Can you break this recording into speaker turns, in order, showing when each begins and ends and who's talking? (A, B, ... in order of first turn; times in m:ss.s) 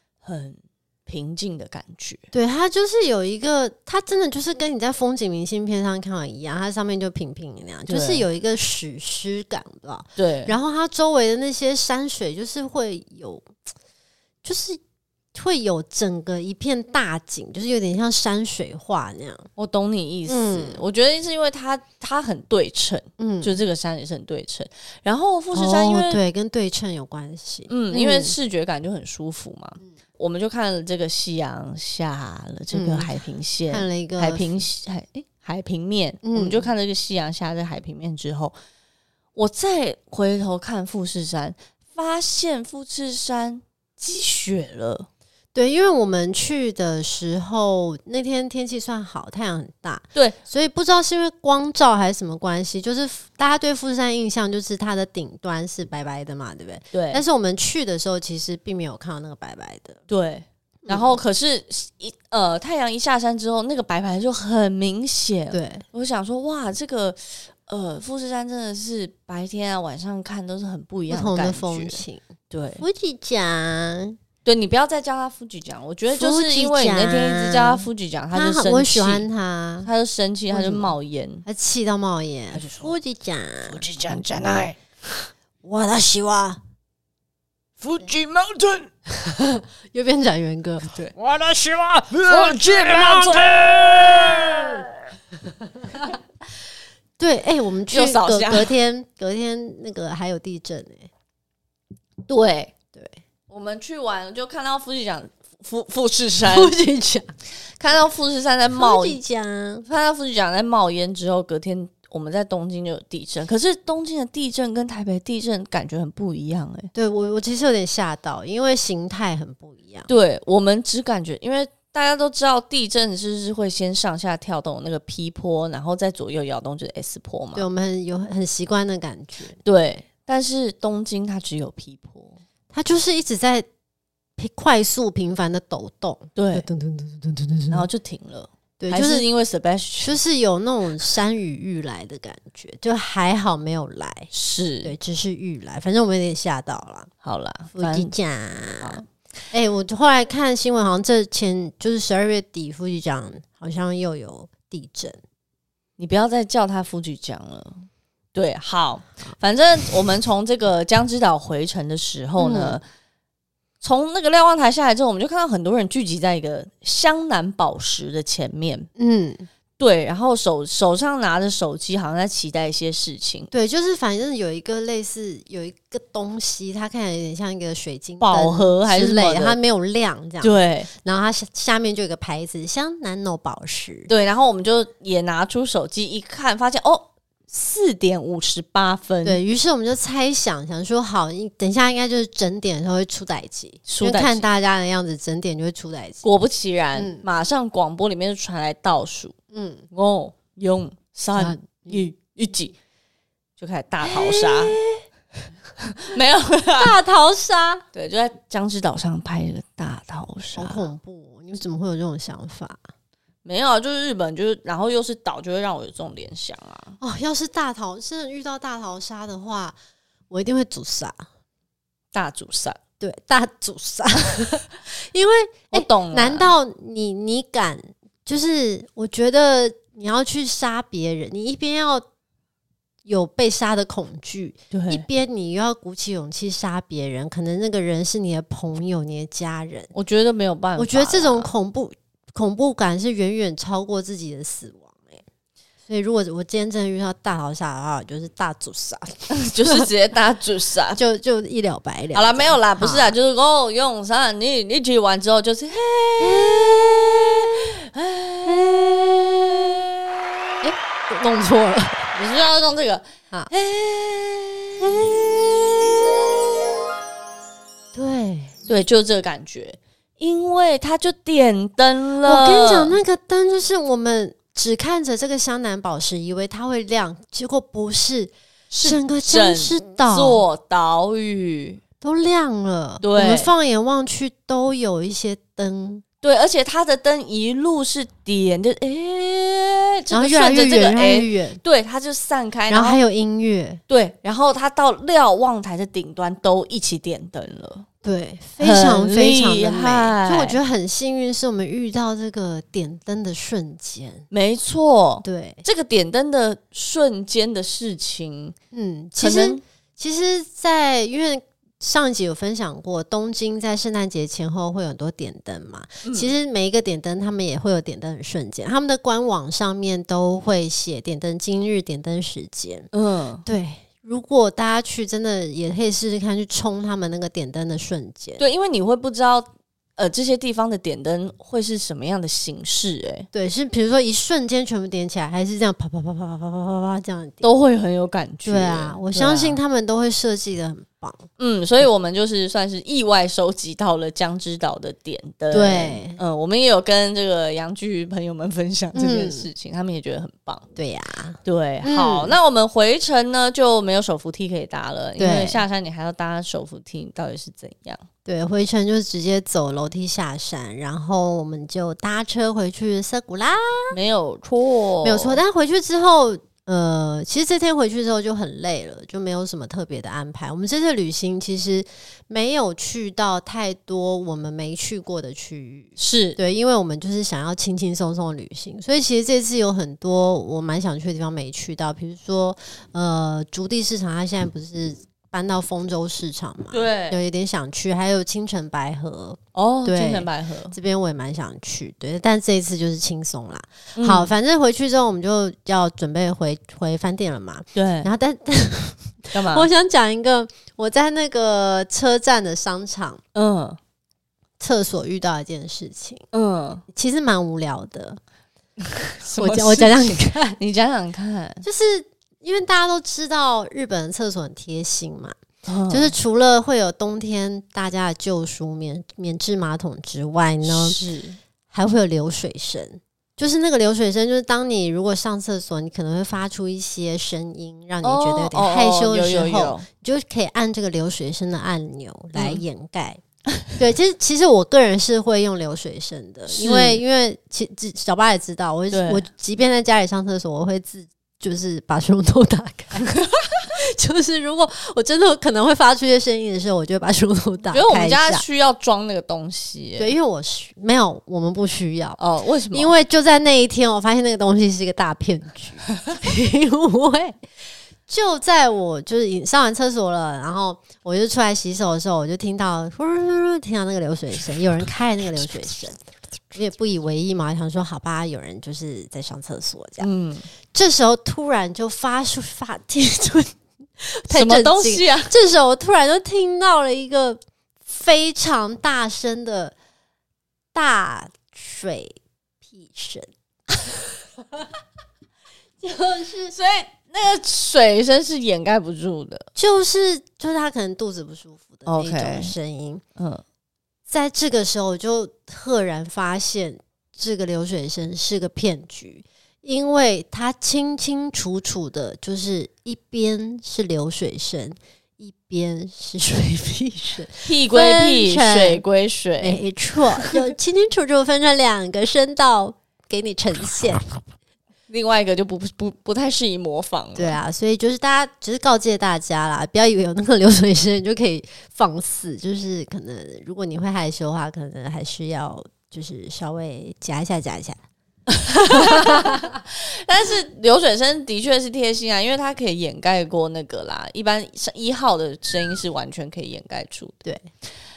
0:00.2-0:02.2 A
0:02.3-0:13.6 B
0:07.9-0:08.3 A
0:10.2-0:10.6 A
0:14.4-0:14.8 B
0:15.3-0:19.5 B
0:19.6-0:26.2 A
0:20.3-0:20.8 B
0:23.2-0:23.6 B
0:25.5-0:28.4 B
0:27.7-0:38.6 A
0:32.7-0:33.1 B
0:33.7-0:34.6 B
0:36.2-0:36.7 B
0:39.4-0:45.1 A
0:45.6-1:00.0 B
0:56.9-0:57.2 A
1:00.1-1:12.8 A
1:00.8-1:01.2 B
1:05.5-1:05.8 B
1:11.1-1:12.3 B
1:12.8-1:14.2 B
1:14.4-1:19.3 A
1:16.1-1:19.9 B
1:19.8-1:21.4 A
1:20.5-1:20.9 B
1:21.4-1:23.8 B
1:22.5-1:22.9 A
1:23.7-1:24.8 A
1:25.6-1:26.6 B
1:27.8-1:28.8 A
1:29.1-1:30.9 B
1:30.8-1:31.1 A
1:31.2-1:34.9 C
1:32.2-1:33.5 A
1:34.2-1:34.7 A
1:37.2-1:41.1 B
1:37.9-1:38.7 A
1:42.3-1:42.8 A
1:42.9-1:43.2 B
1:43.5-1:46.7 A
1:46.4-1:47.3 B
1:47.8-1:49.2 A
1:48.7-1:49.8 B
1:49.8-1:56.9 A
1:56.9-2:00.1 B
2:00.1-2:07.7 A
2:07.6-2:09.6 B
2:09.6-2:12.4 A
2:12.7-2:13.7 B
2:14.4-2:17.9 B
2:16.4-2:16.7 A
2:17.7-2:20.2 A
2:18.8-2:19.3 B
2:20.0-2:24.3 B
2:24.3-2:24.9 A
2:24.8-2:27.1 B
2:27.2-2:28.1 A
2:27.7-2:35.2 B
2:28.8-2:29.1 A
2:36.0-2:42.8 A
2:42.4-2:42.8 B
2:43.8-2:48.9 A
2:49.0-2:49.5 B
2:49.8-2:53.5 A
2:53.5-3:04.1 B
2:58.2-2:59.6 A
3:00.4-3:00.9 A
3:04.1-3:09.4 A
3:09.2-3:16.2 B
3:13.9-3:14.5 A
3:16.2-3:19.4 A
3:17.0-3:17.2 B
3:19.5-3:19.8 B
3:19.9-3:22.8 A
3:21.4-3:22.1 B
3:23.6-3:24.8 A
3:24.0-3:25.0 B
3:25.8-3:27.0 A
3:26.8-3:27.8 B
3:27.9-3:30.8 A
3:30.6-3:32.8 B
3:33.4-3:37.0 A
3:37.0-3:39.8 B
3:40.3-3:41.2 B
3:42.1-3:42.8 A
3:43.0-3:52.0 B
3:45.7-3:46.5 A
3:53.0-3:59.9 B
3:54.7-3:55.0 A
3:59.9-4:01.5 A
4:00.8-4:05.2 B
4:05.9-4:09.9 B
4:09.3-4:11.0 A
4:11.0-4:13.1 B
4:12.1-4:20.7 A
4:16.2-4:16.8 B
4:18.5-4:18.7 B
4:20.6-4:22.1 B
4:22.1-4:26.2 A
4:24.8-4:25.2 B
4:27.9-4:28.6 B
4:28.7-4:33.0 A
4:32.2-4:40.4 B
4:38.7-4:41.8 A
4:42.0-4:46.0 B
4:43.0-4:43.5 A
4:46.2-4:53.0 A
4:50.1-4:51.6 B
4:52.7-4:53.8 B
4:53.9-4:57.9 A
4:58.0-5:04.3 B
4:58.6-5:00.6 A
5:04.3-5:08.6 A
5:05.2-5:05.6 B
5:08.7-5:22.9 B
5:09.2-5:09.6 A
5:16.0-5:16.3 A
5:22.9-5:23.4 A
5:23.5-5:28.4 B
5:28.4-5:33.3 A
5:33.3-5:37.5 B
5:37.4-5:39.6 A
5:38.5-5:41.3 B
5:41.4-5:50.7 A
5:45.5-5:46.2 B
5:49.0-5:49.5 B
5:50.8-5:52.4 B
5:51.4-5:58.0 A
5:55.2-5:55.6 B
5:58.3-6:03.9 B
6:03.9-6:05.4 A
6:05.0-6:43.2 B
6:16.0-6:16.4 A
6:26.7-6:27.2 A
6:29.6-6:30.8 A
6:34.0-6:34.3 A
6:37.8-6:38.1 A
6:39.3-6:39.7 A
6:43.4-6:43.8 A
6:44.6-6:46.3 B
6:46.3-6:46.8 A
6:46.9-6:48.2 B
6:48.8-6:51.6 A
6:49.3-6:50.6 B
6:51.6-6:55.4 B
6:55.7-6:56.1 A
6:55.9-7:01.0 B
7:00.6-7:01.4 A
7:01.7-7:13.2 B
7:08.0-7:09.9 A
7:12.4-7:12.6 A
7:13.7-7:28.4 B
7:16.5-7:17.0 A
7:18.9-7:19.3 A
7:23.0-7:23.5 A
7:27.7-7:30.1 A
7:30.0-7:32.2 B
7:32.2-7:32.9 A
7:32.7-7:37.4 B
7:38.1-7:46.0 B
7:46.5-7:50.1 B
7:50.0-7:50.5 A
7:50.7-7:59.7 B
7:54.3-7:55.3 A
8:00.7-8:03.3 B
8:05.8-8:06.6 B
8:06.5-8:09.5 A
8:09.6-8:13.0 B
8:11.8-8:12.6 A
8:13.2-8:13.4 A
8:14.1-8:28.8 B
8:27.4-8:29.6 A
8:29.4-8:34.1 B
8:34.9-8:37.4 A
8:37.2-8:47.8 B
8:48.3-8:57.2 A
8:48.6-8:49.5 B
8:57.2-8:57.5 B